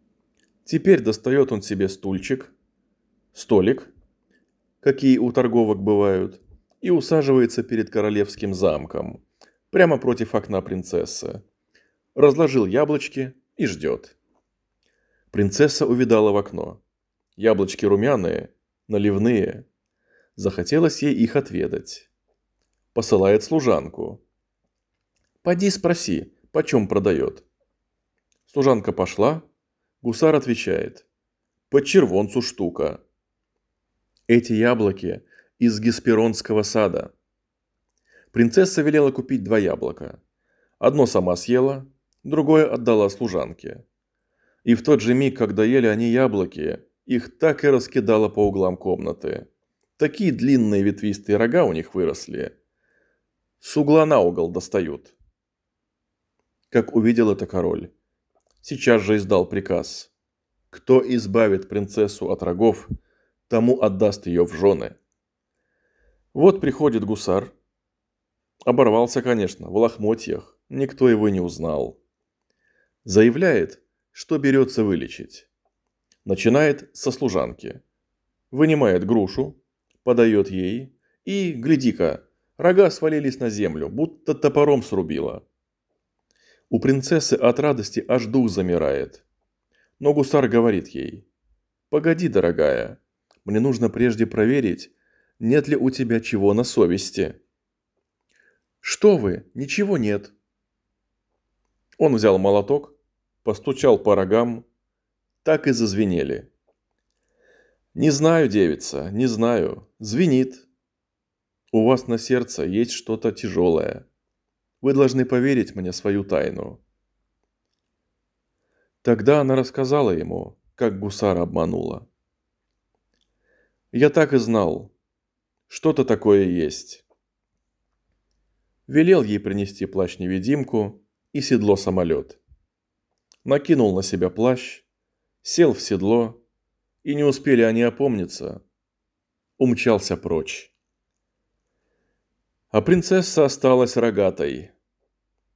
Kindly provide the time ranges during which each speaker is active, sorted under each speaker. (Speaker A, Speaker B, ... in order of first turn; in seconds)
Speaker A: 0.6-2.5, 3.3-3.9, 4.8-11.4, 12.1-14.2, 15.3-16.8, 17.4-19.6, 20.4-22.1, 22.9-24.2, 25.4-27.4, 28.5-29.4, 30.0-31.1, 31.7-33.0, 34.3-37.1, 38.3-40.2, 40.8-43.8, 44.6-52.5, 53.6-55.1, 56.7-57.9, 58.6-60.1, 60.7-62.9, 63.5-65.0, 66.3-67.5, 68.7-72.0, 73.0-75.5, 76.2-77.8, 78.5-85.4, 86.7-89.2, 90.0-91.2, 91.9-97.4, 98.8-100.3, 102.0-104.7, 105.4-106.5, 107.9-110.7, 111.7-114.0, 114.8-116.8, 119.0-122.1, 123.9-124.9, 125.7-127.0, 128.9-132.4, 133.4-134.8, 135.4-136.4, 137.0-138.6, 139.6-140.7, 142.7-144.7